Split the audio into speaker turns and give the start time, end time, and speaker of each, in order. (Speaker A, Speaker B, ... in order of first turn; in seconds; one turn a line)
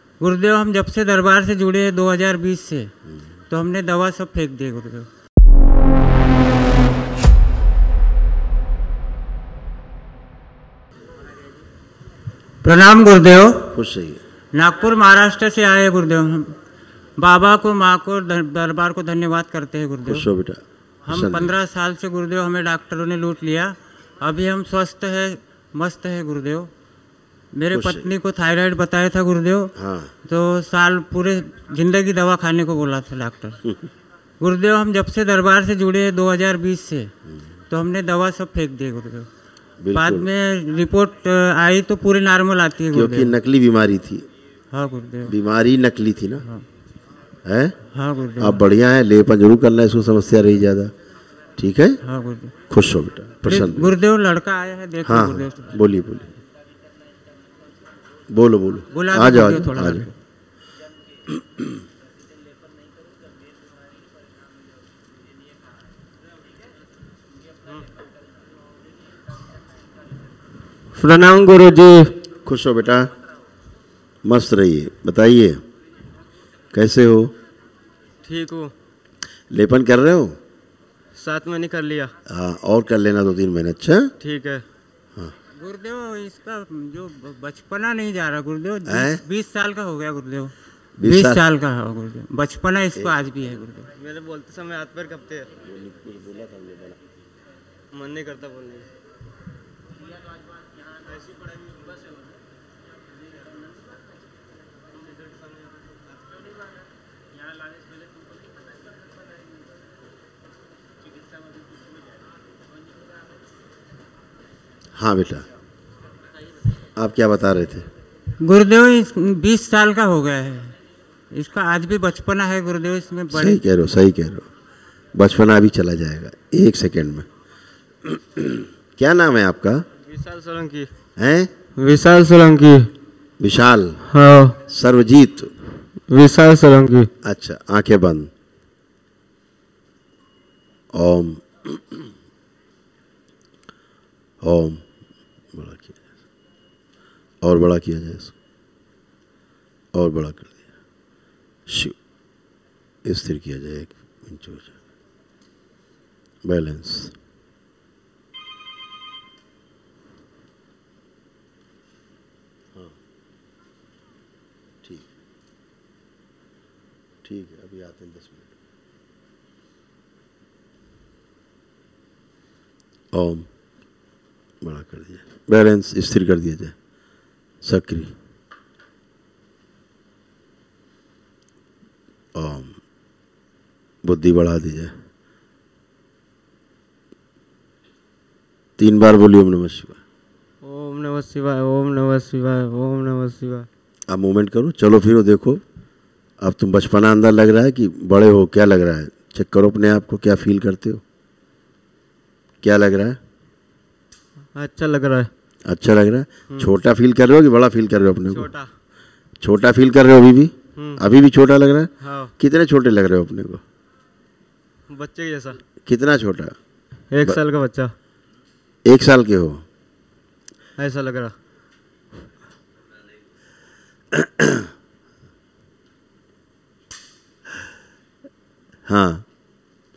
Speaker A: 0.2-2.9
Speaker A: 3.5-5.1
Speaker A: 12.6-13.7
Speaker B: 13.7-14.2
Speaker A: 14.5-16.6
Speaker A: 17.2-20.2
Speaker B: 20.0-21.5
Speaker A: 21.0-26.7
Speaker A: 27.5-29.7
Speaker B: 27.7-28.1
Speaker B: 29.8-30.1
Speaker A: 30.2-33.6
Speaker A: 34.4-37.1
Speaker A: 37.7-39.3
Speaker B: 39.8-40.3
Speaker A: 39.9-43.3
Speaker B: 42.9-44.2
Speaker A: 44.7-45.3
Speaker B: 45.2-46.4
Speaker B: 47.4-47.8
Speaker A: 47.9-48.6
Speaker B: 48.4-50.9
Speaker B: 51.6-52.0
Speaker A: 52.0-52.5
Speaker B: 52.7-53.9
Speaker A: 53.4-55.7
Speaker B: 55.0-56.3
Speaker B: 58.3-60.1
Speaker A: 58.9-60.1
Speaker C: 70.9-72.2
Speaker B: 72.4-73.1
Speaker B: 74.2-75.6
Speaker B: 76.7-77.3
Speaker C: 78.2-78.7
Speaker B: 79.5-80.4
Speaker C: 81.2-82.1
Speaker B: 82.3-84.1
Speaker C: 84.2-84.6
Speaker A: 85.5-93.9
Speaker B: 88.8-89.2
Speaker B: 91.0-91.4
Speaker C: 94.0-95.5
Speaker B: 95.6-97.0
Speaker C: 97.9-98.9
Speaker C: 101.2-102.0
Speaker B: 115.0-115.4
Speaker B: 117.0-117.9
Speaker A: 118.4-120.8
Speaker A: 121.3-123.6
Speaker B: 123.3-124.5
Speaker B: 125.1-127.3
Speaker B: 128.0-129.8
Speaker C: 130.1-130.9
Speaker B: 131.2-131.5
Speaker C: 131.8-132.9
Speaker B: 133.4-134.0
Speaker C: 134.1-134.6
Speaker B: 134.7-135.5
Speaker C: 136.1-137.1
Speaker B: 137.2-138.3
Speaker B: 140.9-142.0
Speaker B: 144.4-144.8
Speaker B: 145.5-146.1
Speaker B: 147.4-148.3
Speaker B: 149.9-150.6
Speaker B: 151.7-151.9
Speaker B: 153.0-154.7
Speaker B: 156.4-157.1
Speaker B: 167.2-168.5
Speaker B: 173.1-173.5
Speaker B: 174.6-176.7
Speaker B: 177.6-178.1
Speaker B: 182.3-182.8
Speaker B: 184.0-184.9
Speaker B: 188.8-190.0
Speaker C: 190.6-193.7
Speaker B: 194.1-195.6
Speaker B: 196.4-201.0
Speaker B: 202.6-203.2
Speaker C: 204.5-205.3
Speaker B: 205.6-208.5
Speaker C: 208.3-208.7
Speaker B: 209.4-213.6
Speaker C: 210.8-211.0
Speaker C: 212.0-212.3
Speaker C: 214.9-215.6
Speaker B: 215.8-216.5
Speaker C: 217.1-217.9
Speaker B: 218.8-219.6
Speaker C: 220.8-221.3
Speaker B: 224.1-224.7
Speaker B: 228.9-229.2